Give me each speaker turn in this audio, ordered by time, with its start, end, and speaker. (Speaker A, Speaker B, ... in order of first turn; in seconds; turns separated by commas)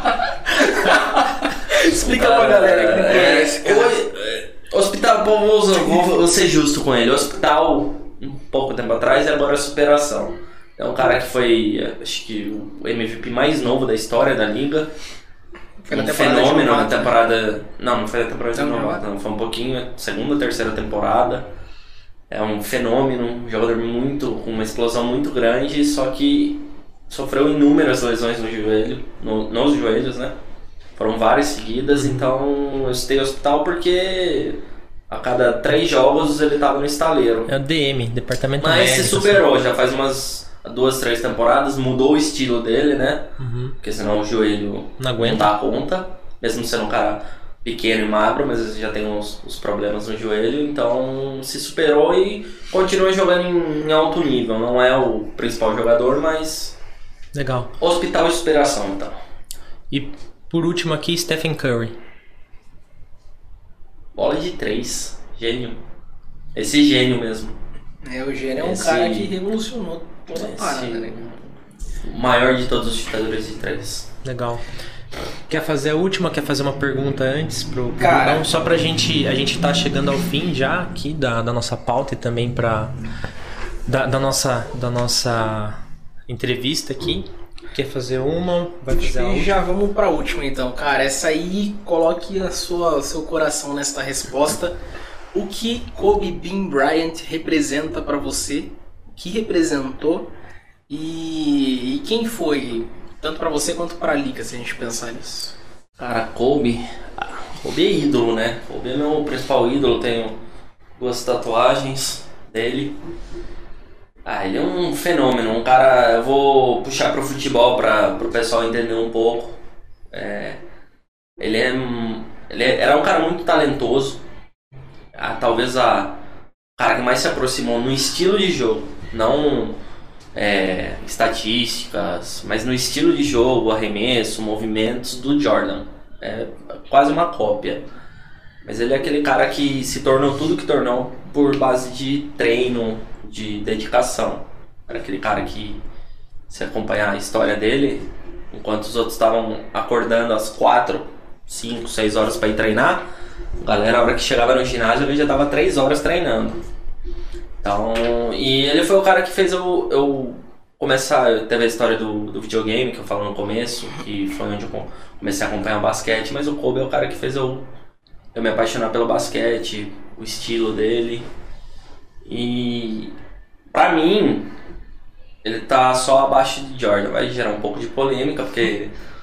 Speaker A: 0.7-4.0, Speaker B: 1.9-14.9, Speaker A: 15.8-17.1, Speaker B: 15.9-21.5, Speaker A: 18.6-19.0, Speaker B: 22.3-30.4, Speaker B: 31.0-37.5, Speaker C: 31.9-32.3, Speaker C: 37.5-39.4, Speaker B: 38.6-56.8, Speaker C: 43.4-43.8, Speaker C: 45.0-45.5, Speaker C: 57.3-57.7, Speaker B: 57.8-59.2, Speaker C: 59.9-62.0, Speaker B: 64.2-65.8, Speaker B: 66.5-67.6, Speaker A: 68.0-71.3, Speaker B: 68.6-69.3, Speaker B: 70.3-74.1, Speaker C: 74.2-74.6, Speaker C: 75.5-83.0, Speaker A: 78.0-78.4, Speaker C: 83.9-89.5, Speaker A: 88.9-94.8, Speaker A: 95.3-100.3, Speaker A: 100.9-105.6, Speaker B: 106.0-110.4, Speaker B: 111.0-113.0, Speaker B: 114.2-119.6, Speaker B: 120.1-120.6, Speaker B: 121.4-124.2, Speaker B: 125.2-126.2, Speaker B: 126.8-129.8, Speaker B: 130.3-137.9, Speaker B: 138.6-145.8, Speaker B: 146.5-153.1, Speaker B: 153.6-156.6, Speaker B: 157.6-167.7, Speaker B: 168.3-171.3, Speaker B: 172.2-173.2, Speaker B: 173.7-174.5, Speaker B: 175.4-178.9